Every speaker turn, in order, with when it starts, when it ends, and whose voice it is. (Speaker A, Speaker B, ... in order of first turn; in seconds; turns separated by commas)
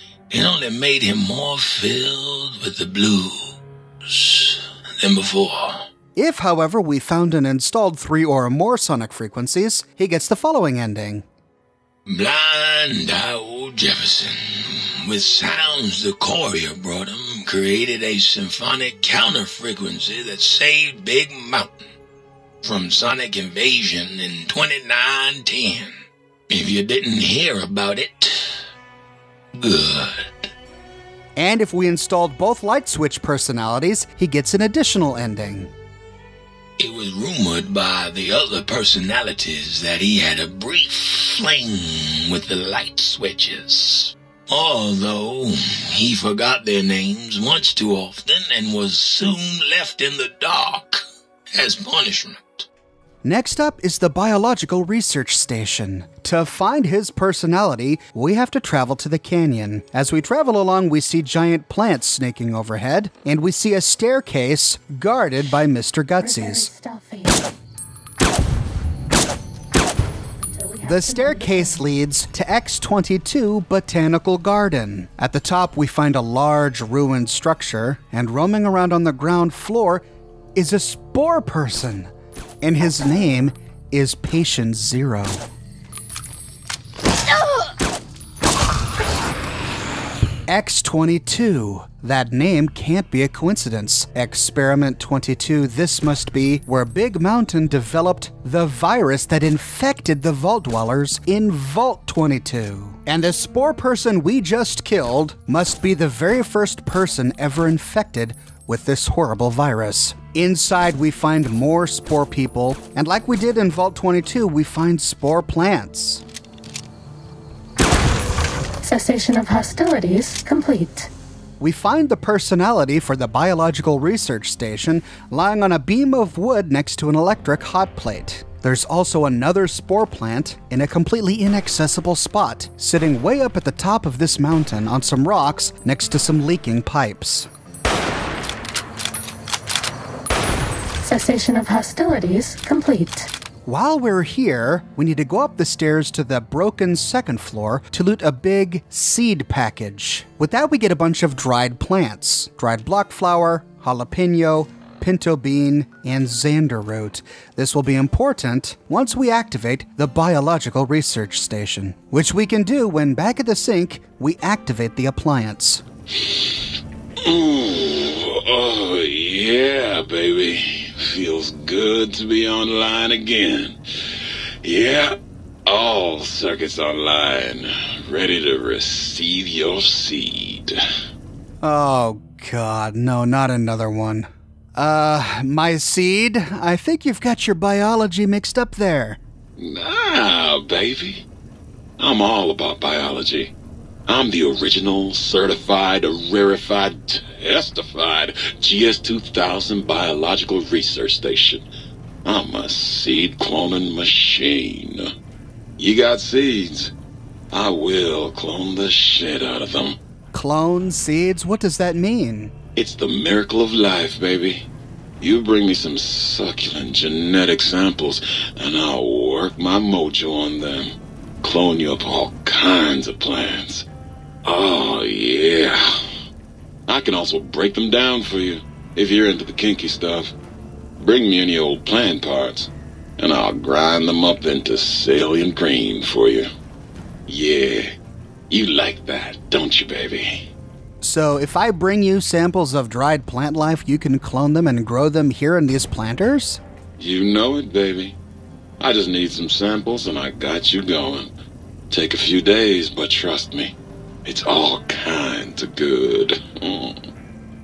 Speaker A: 0.3-3.5, Speaker A: 4.0-5.9, Speaker B: 6.2-11.2, Speaker A: 12.1-21.9, Speaker A: 22.6-25.9, Speaker A: 26.5-28.6, Speaker A: 29.6-30.5, Speaker B: 31.4-35.7, Speaker A: 36.8-52.7, Speaker B: 53.2-66.7, Speaker C: 66.2-67.4, Speaker C: 70.5-71.8, Speaker B: 70.8-85.4, Speaker B: 90.5-116.2, Speaker C: 118.8-121.1, Speaker B: 121.6-137.5, Speaker C: 141.0-143.3, Speaker B: 143.6-165.8, Speaker D: 167.2-173.8, Speaker D: 174.6-180.8, Speaker B: 181.6-189.2, Speaker D: 189.6-191.2, Speaker D: 192.0-193.5, Speaker D: 194.1-201.7, Speaker D: 202.2-205.1, Speaker D: 205.8-206.9, Speaker D: 207.5-210.0, Speaker B: 210.3-212.5, Speaker D: 212.8-214.7, Speaker D: 215.2-223.8, Speaker D: 224.4-226.1, Speaker D: 226.9-230.3, Speaker D: 231.0-236.5, Speaker D: 237.3-237.9, Speaker D: 238.5-240.5, Speaker B: 241.0-246.6, Speaker D: 247.0-248.2, Speaker D: 248.8-251.3, Speaker D: 251.9-257.0